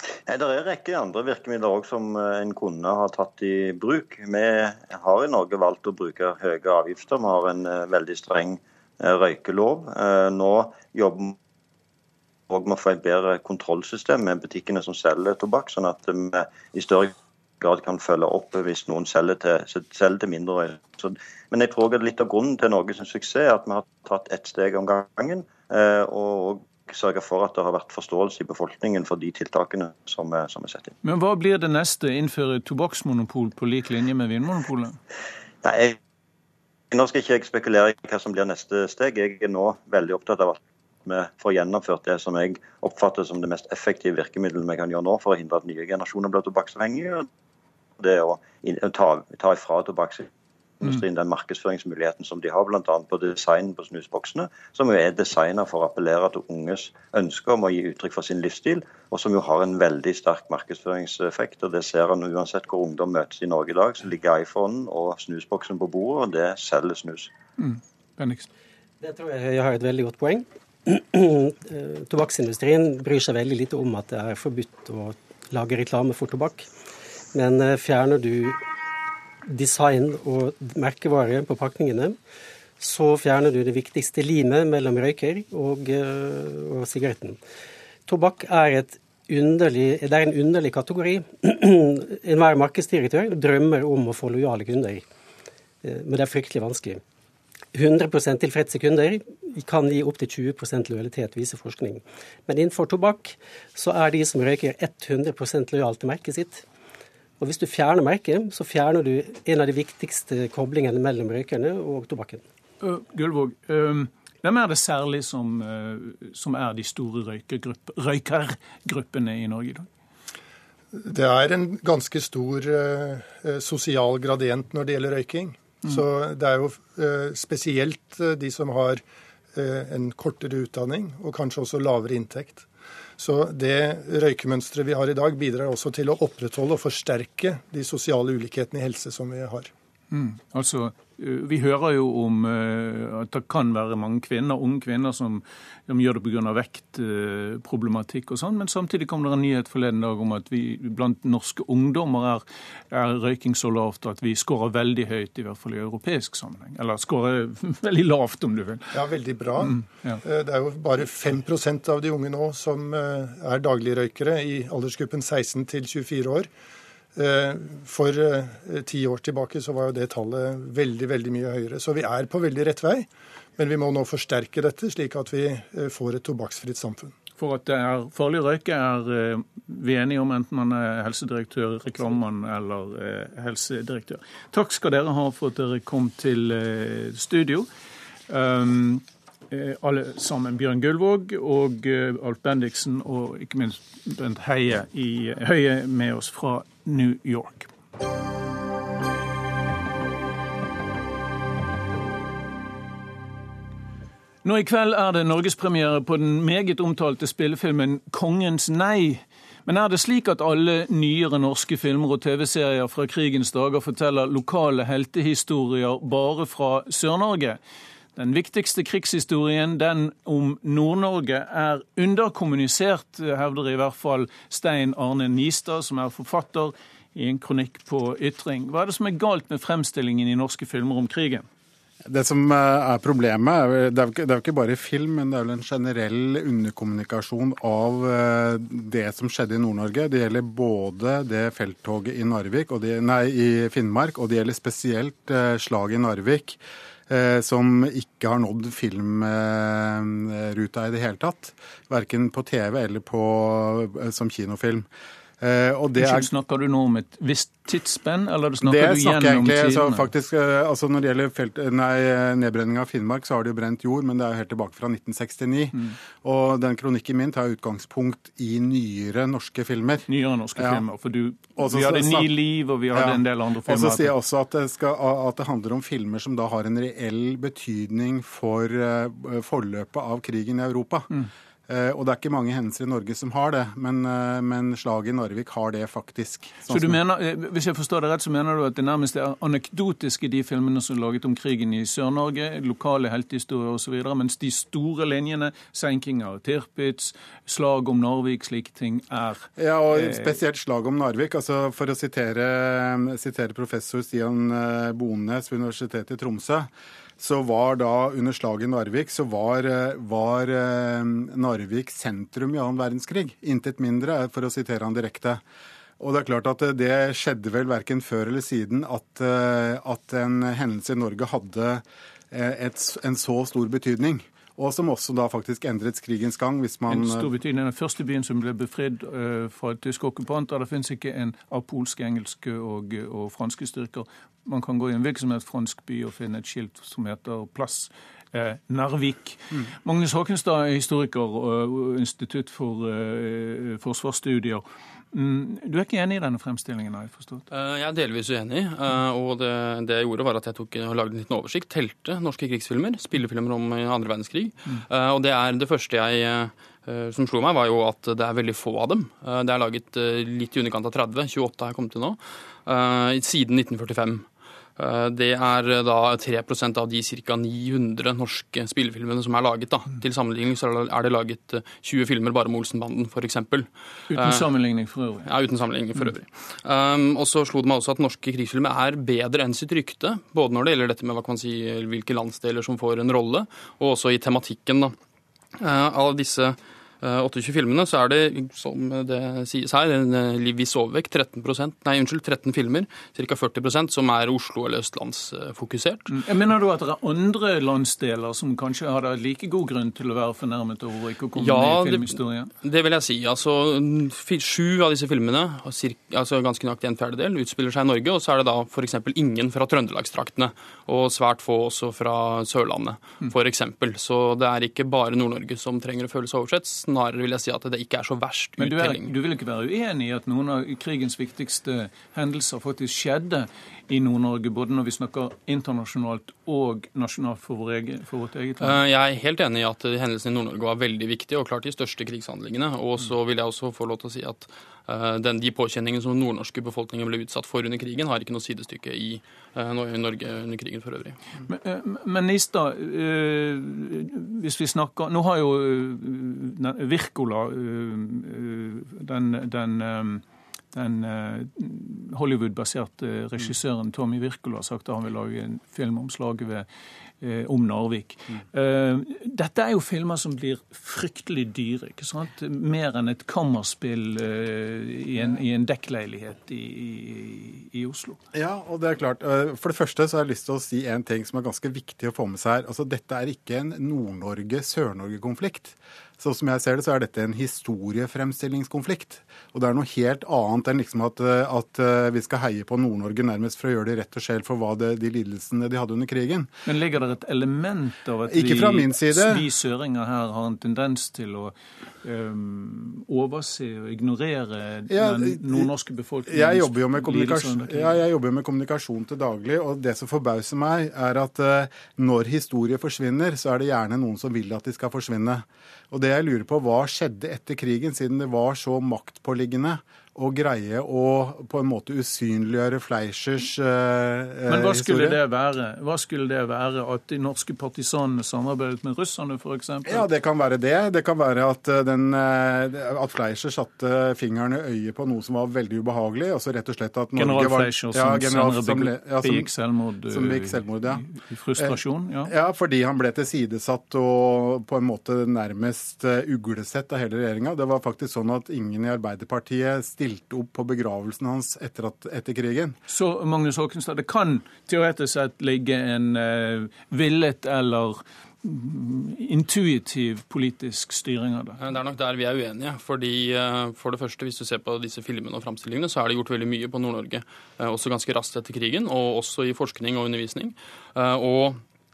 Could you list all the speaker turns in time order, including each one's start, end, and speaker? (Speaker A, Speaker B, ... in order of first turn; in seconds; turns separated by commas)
Speaker A: 0.3-11.4, Speaker A: 12.5-30.9, Speaker B: 31.0-35.0, Speaker A: 35.6-36.0, Speaker A: 36.9-47.3, Speaker A: 48.0-50.3, Speaker A: 50.8-67.3, Speaker B: 67.6-68.5, Speaker C: 69.0-76.7, Speaker C: 77.3-78.6, Speaker C: 79.5-82.2, Speaker C: 82.8-87.4, Speaker C: 88.1-95.0, Speaker C: 95.8-97.0, Speaker C: 97.7-106.6, Speaker C: 107.4-112.4, Speaker B: 112.8-119.9, Speaker D: 120.9-132.7, Speaker D: 133.2-139.7, Speaker B: 140.1-159.0, Speaker D: 158.9-166.5, Speaker B: 159.6-160.2, Speaker D: 167.1-177.1, Speaker B: 177.4-187.7, Speaker B: 188.3-197.7, Speaker B: 204.4-217.6, Speaker B: 218.2-231.4, Speaker E: 232.1-254.9, Speaker E: 255.4-256.3, Speaker B: 256.0-260.1, Speaker E: 258.6-270.8, Speaker B: 270.1-274.1, Speaker E: 271.6-272.4, Speaker E: 272.9-281.1, Speaker E: 281.7-287.0, Speaker B: 286.6-300.3, Speaker E: 299.6-315.4, Speaker E: 316.0-327.3, Speaker B: 326.9-347.5, Speaker F: 347.5-374.5, Speaker B: 374.1-375.3, Speaker F: 375.2-384.9, Speaker F: 385.6-396.2, Speaker B: 396.1-402.5, Speaker F: 401.3-419.1, Speaker B: 418.6-428.8, Speaker F: 428.6-441.2, Speaker B: 441.5-456.6, Speaker B: 457.2-468.2, Speaker E: 468.3-486.5, Speaker B: 486.6-498.0, Speaker E: 488.3-489.4, Speaker E: 494.9-495.7, Speaker E: 496.2-515.2, Speaker B: 514.5-520.0, Speaker E: 519.9-529.5, Speaker B: 527.1-532.3, Speaker E: 530.1-542.8, Speaker B: 542.9-551.6, Speaker F: 551.6-561.6